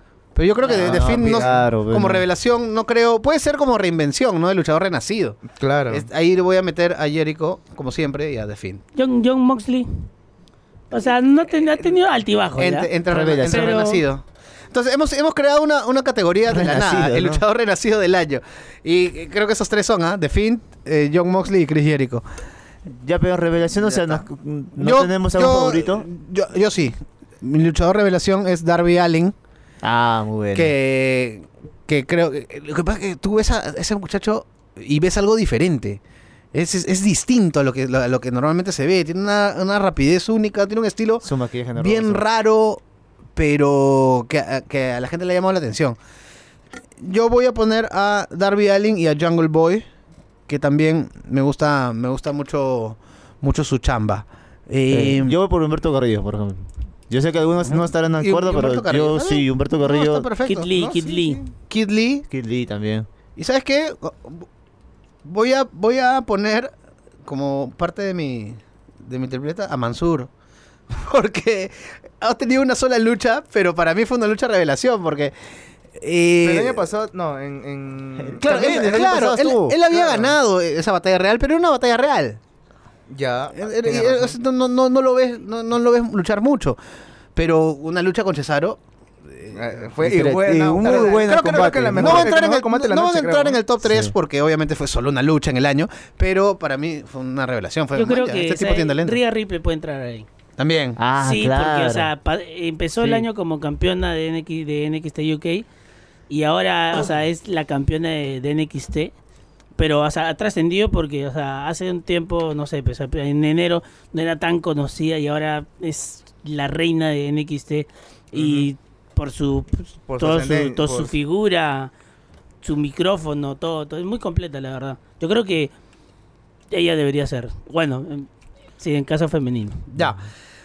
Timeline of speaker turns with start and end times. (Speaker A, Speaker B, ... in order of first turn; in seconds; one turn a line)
Speaker A: 0.3-8.8
Speaker B: 0.6-1.6
Speaker C: 0.7-2.2
Speaker B: 5.5-6.0
Speaker D: 8.9-10.1
Speaker D: 10.9-14.0
Speaker A: 12.6-22.2
Speaker C: 13.1-13.8
Speaker C: 16.5-17.4
Speaker C: 22.9-26.1
Speaker A: 23.8-24.2
Speaker A: 24.8-29.3
Speaker C: 29.8-30.7
Speaker A: 30.5-36.0
Speaker A: 36.5-42.8
Speaker C: 41.2-42.2
Speaker A: 43.3-46.0
Speaker A: 47.0-49.9
Speaker A: 50.5-55.3
Speaker C: 54.9-60.3
Speaker A: 57.6-60.7
Speaker D: 60.5-61.4
Speaker B: 60.7-61.5
Speaker A: 61.7-62.2
Speaker C: 62.3-63.1
Speaker A: 63.4-64.5
Speaker A: 65.2-66.7
Speaker A: 67.2-70.3
Speaker A: 70.9-75.3
Speaker A: 76.0-76.8
Speaker B: 76.4-79.1
Speaker C: 78.2-79.8
Speaker A: 78.4-82.4
Speaker B: 79.9-80.3
Speaker B: 83.1-84.3
Speaker A: 83.5-86.8
Speaker A: 87.3-88.8
Speaker A: 89.3-89.6
Speaker B: 89.5-93.6
Speaker C: 90.0-92.3
Speaker A: 90.8-99.2
Speaker C: 93.8-94.1
Speaker D: 97.9-100.2
Speaker A: 100.6-101.0
Speaker C: 101.0-102.1
Speaker D: 101.2-105.7
Speaker D: 106.3-109.1
Speaker D: 109.8-121.9
Speaker A: 118.3-118.7
Speaker B: 120.1-121.1
Speaker D: 122.6-125.7
Speaker D: 126.7-128.3
Speaker D: 128.8-129.8
Speaker A: 129.9-130.2